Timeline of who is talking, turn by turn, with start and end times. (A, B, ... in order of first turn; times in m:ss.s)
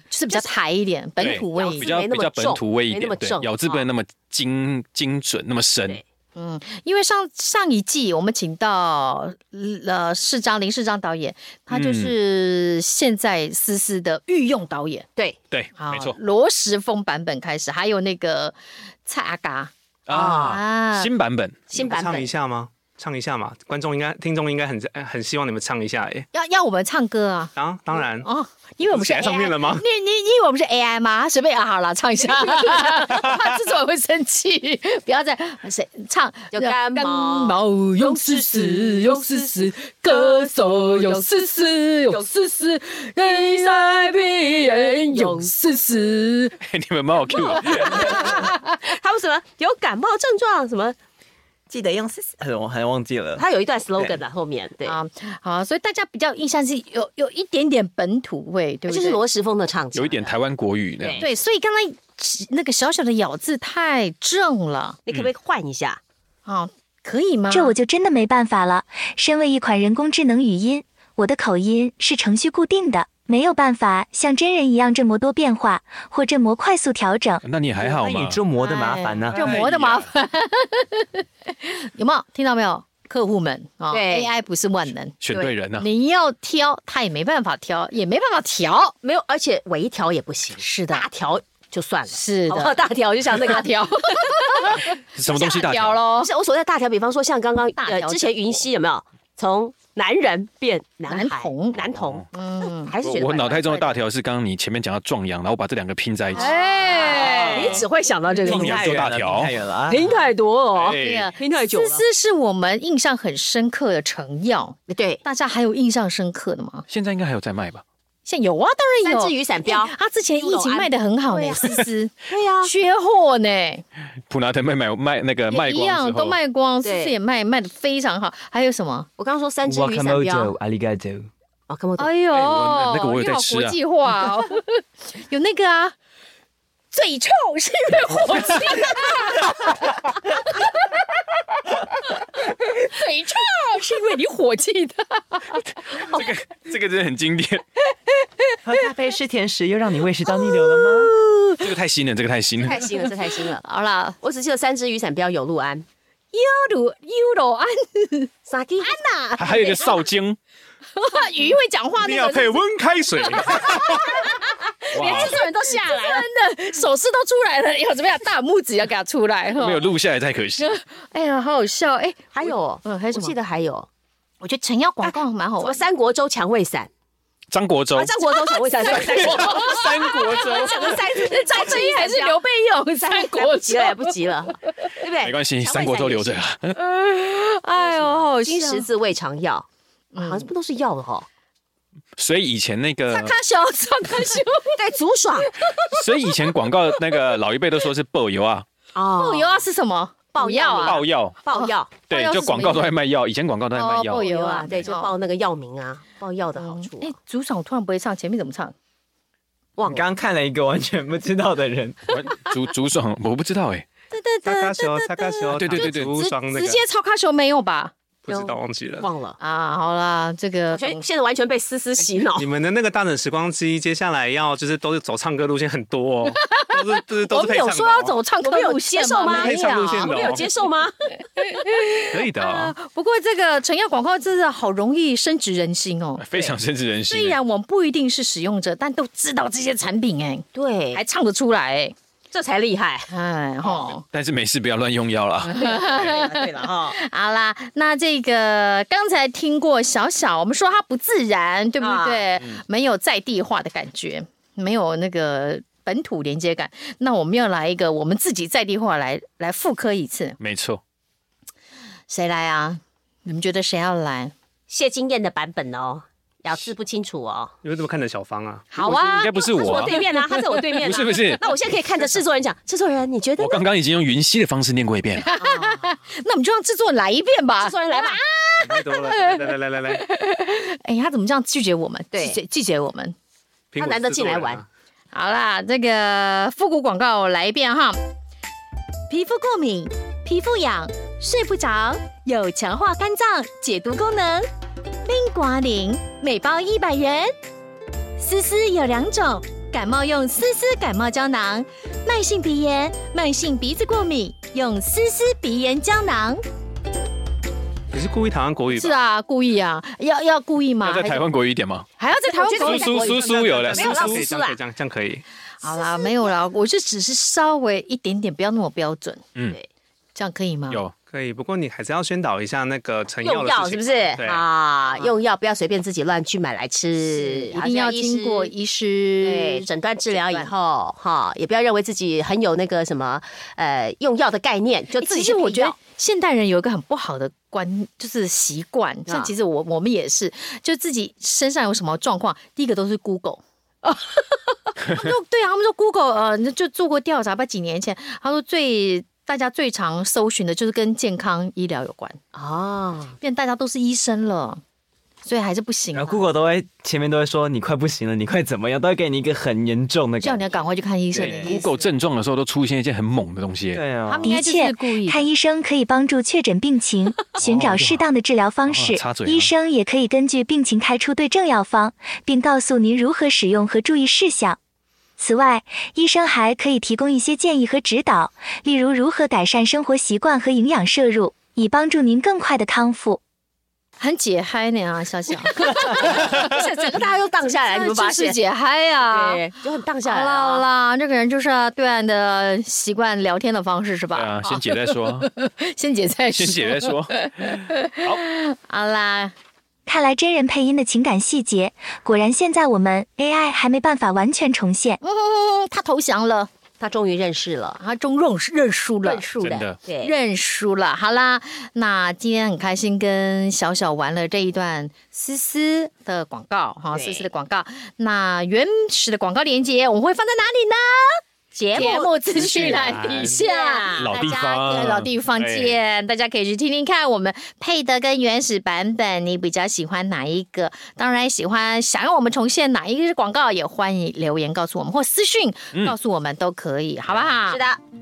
0:00.1-0:01.9 A
0:01.2-0:06.0 B
0:01.6-0:03.8 C
0:06.3-0:15.1 A
0:11.7-0:12.1 B
0:15.5-0:16.2 B
0:15.8-0:21.1 A
0:20.1-0:21.7 B
0:20.1-0:20.6 C
0:21.7-0:26.3 D
0:21.7-0:22.3 C
0:26.3-0:46.6 A
0:27.6-0:28.3 D
0:28.8-0:29.8 D
0:36.5-0:39.6 C
0:40.6-0:41.5 C
0:45.1-0:45.5 C
0:46.6-0:48.3 B
0:47.4-0:48.7 A
0:47.7-0:51.0 C
0:51.7-0:54.2 E
0:53.3-0:55.0 C
0:54.8-0:59.2 A
0:58.9-1:00.3 C
0:59.9-1:01.3 B
1:01.0-1:01.3 C
1:01.2-1:05.0 A
1:05.1-1:06.0 C
1:06.5-1:07.8 A
1:07.5-1:17.4 F
1:17.4-1:18.4 B
1:17.8-1:19.6 E
1:18.6-1:25.2 A
1:19.3-1:20.1 B
1:23.9-1:24.3 C
1:25.2-1:25.9 B
1:25.8-1:28.9 A
1:29.0-1:33.8 C
1:30.6-1:31.1 A
1:32.1-1:32.8 A
1:33.3-1:36.3 A
1:35.2-1:36.0 B
1:36.2-1:42.2 C
1:37.8-1:38.3 A
1:41.1-1:41.8 A
1:42.0-1:42.2 B
1:42.3-1:42.9 A
1:42.8-1:44.0 C
1:43.0-1:46.5 B
1:46.3-1:47.8 A
1:46.4-1:48.9 C
1:47.1-1:47.7 E
1:47.3-1:47.8 B
1:48.4-1:50.1 E
1:48.5-1:49.5 B
1:49.9-1:52.0 C
1:50.8-1:51.3 B
1:51.0-1:56.9 A
1:54.9-1:55.2 C
1:56.9-1:57.8 B
1:58.2-2:03.8 A
1:59.0-2:01.6 C
2:02.3-2:02.7 C
2:04.3-2:06.4 B
2:05.5-2:09.1 A
2:06.8-2:07.1 C
2:09.2-2:10.5 C
2:09.6-2:11.3 E
2:11.7-2:12.1 C
2:12.0-2:15.9 A
2:12.3-2:13.8 B
2:16.9-2:21.0 A
2:21.7-2:25.6 A
2:26.1-2:27.6 B
2:28.6-2:31.1 E
2:30.3-2:31.7 A
2:31.6-2:32.8 B
2:32.6-2:33.6 C
2:33.5-2:34.2 A
2:34.2-2:35.8 C
2:36.3-2:38.3 A
2:38.5-2:38.9 C
2:38.8-2:40.0 A
2:39.4-2:40.4 B
2:41.0-2:42.6 A
2:42.0-2:44.1 D
2:43.5-2:49.9 A
2:44.9-2:45.4 B
2:49.6-2:50.7 B
2:50.6-2:53.4 A
2:52.3-2:53.9 C
2:54.4-2:55.8 A
2:55.0-2:56.9 C
2:57.5-2:58.2 B
2:57.9-3:02.4 C
2:58.8-3:04.1 A
2:58.9-3:00.9 B
3:03.0-3:06.4 C
3:05.2-3:06.7 B
3:06.8-3:08.9 A
3:07.7-3:11.2 C
3:10.1-3:10.5 A
3:12.2-3:13.4 B
3:13.1-3:14.8 A
3:14.8-3:15.5 C
3:15.6-3:16.0 A
3:15.9-3:18.7 B
3:18.9-3:19.6 C
3:19.2-3:23.0 A
3:20.3-3:21.9 C
3:20.8-3:21.4 B
3:22.1-3:24.2 B
3:23.7-3:25.1 A
3:24.1-3:27.1 C
3:26.6-3:28.7 A
3:29.8-3:30.1 C
3:29.8-3:32.1 E
3:32.1-3:33.8 B
3:34.1-3:37.9 A
3:34.4-3:36.8 D
3:35.5-3:36.1 B
3:38.2-3:39.1 D
3:38.3-3:39.4 C
3:39.4-3:41.0 A
3:40.7-3:42.4 C
3:42.4-3:48.2 D
3:46.4-3:50.2 A
3:48.4-3:50.9 C
3:49.3-3:50.5 D
3:51.4-3:56.2 A
3:52.1-3:52.7 D
3:56.2-3:57.4 B
3:57.1-4:01.9 A
4:00.6-4:01.0 C
4:02.3-4:03.1 C
4:03.1-4:04.0 A
4:03.6-4:03.9 C
4:04.1-4:05.7 B
4:05.5-4:20.4 A
4:05.7-4:07.0 C
4:11.8-4:12.6 C
4:20.4-4:20.8 B
4:22.1-4:24.3 A
4:24.7-4:27.5 C
4:27.6-4:28.7 D
4:28.7-4:30.0 A
4:28.8-4:30.0 B
4:29.5-4:33.6 C
4:30.7-4:31.5 B
4:33.4-4:35.3 B
4:35.2-4:43.1 A
4:35.4-4:36.0 C
4:37.6-4:38.2 C
4:38.6-4:40.0 D
4:42.1-4:42.4 C
4:43.7-4:44.7 D
4:43.8-4:44.6 C
4:45.1-4:48.0 A
4:49.1-4:54.5 A
4:55.0-4:57.3 A
4:58.2-5:06.4 A
5:07.9-5:09.0 D
5:08.7-5:11.3 A
5:10.8-5:11.9 B
5:12.0-5:13.2 A
5:12.3-5:13.1 C
5:12.6-5:14.3 B
5:12.8-5:15.2 D
5:13.7-5:14.6 C
5:15.6-5:19.2 A
5:20.1-5:20.8 A
5:21.1-5:24.4 D
5:23.2-5:28.5 C
5:27.0-5:30.5 A
5:29.2-5:35.8 C
5:35.0-5:44.2 A
5:39.1-5:39.3 C
5:44.8-5:52.2 A
5:52.4-5:53.2 C
5:53.2-5:54.6 A
5:55.2-5:56.2 A
5:55.9-6:00.5 E
6:00.2-6:01.8 A
6:01.1-6:01.6 E
6:01.2-6:03.9 B
6:03.7-6:04.4 E
6:04.1-6:05.2 A
6:04.2-6:14.6 F
6:07.4-6:08.1 B
6:08.7-6:09.5 B
6:15.2-6:23.2 F
6:24.0-6:26.6 A
6:25.6-6:28.4 C
6:27.6-6:29.4 A
6:29.0-6:30.6 C
6:30.0-6:39.3 A
6:34.1-6:35.3 B
6:36.4-6:38.2 B
6:39.9-6:45.0 F
6:45.0-6:46.5 A
6:46.8-6:47.8 C
6:47.8-7:01.2 A
6:49.0-6:50.1 C
6:49.4-6:49.8 B
6:56.9-6:57.3 C
7:01.5-7:04.2 C
7:01.7-7:17.6 A
7:02.4-7:03.3 D
7:04.0-7:05.8 B
7:17.5-7:17.8 C